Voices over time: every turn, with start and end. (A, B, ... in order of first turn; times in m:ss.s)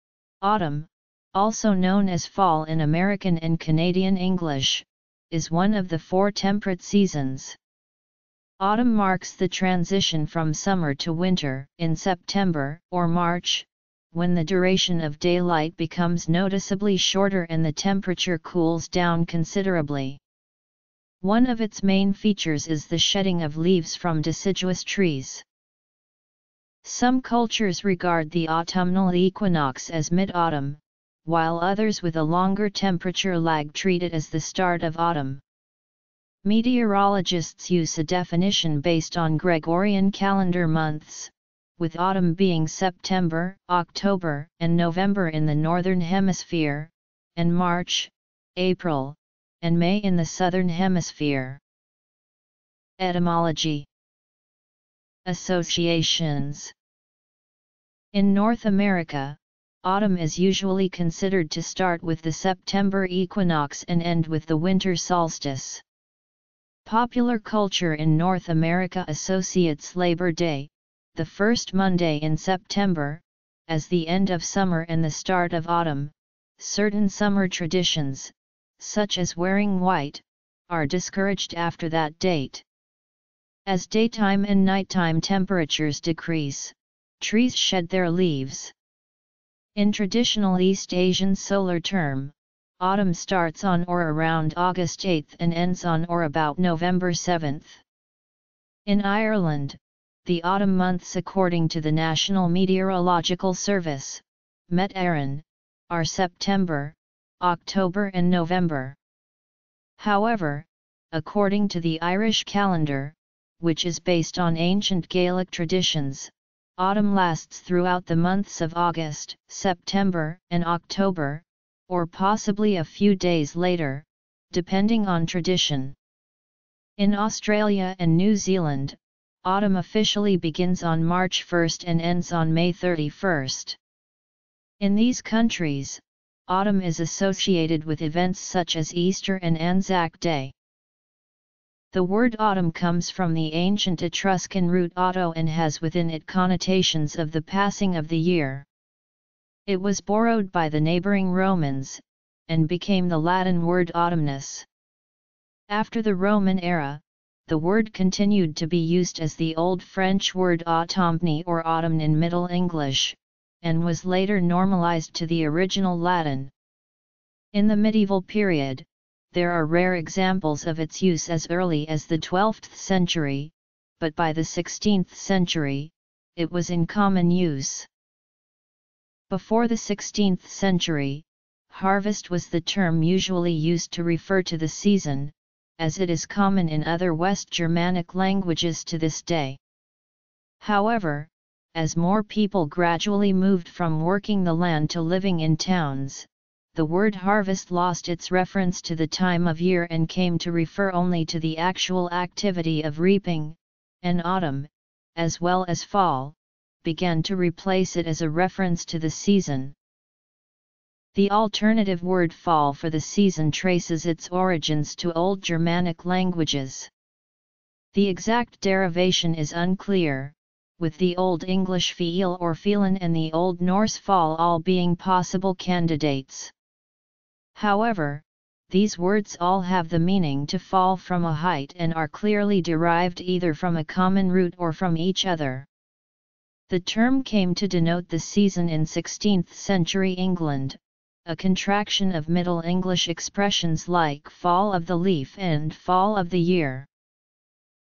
0:00.4-0:07.6 A
0:08.6-0:20.2 A
0:21.2-0:25.4 A
0:26.8-0:35.4 A
0:36.4-0:51.6 A
0:53.0-0:53.9 A
0:55.2-0:56.7 A
0:58.1-1:05.8 A
1:06.8-1:22.6 A
1:23.6-1:28.7 A
1:29.8-1:37.8 A
1:38.8-1:49.0 A
1:50.0-2:06.0 A
2:07.0-2:13.8 A
2:14.8-2:20.5 A
2:21.9-2:28.7 A
2:29.7-2:34.7 A
2:35.7-2:46.5 A
2:47.5-2:57.9 A
2:59.3-3:09.6 A
3:10.6-3:29.7 A
3:31.1-3:36.9 A
3:37.9-3:46.5 A
3:47.5-3:55.7 A
3:56.7-4:06.9 A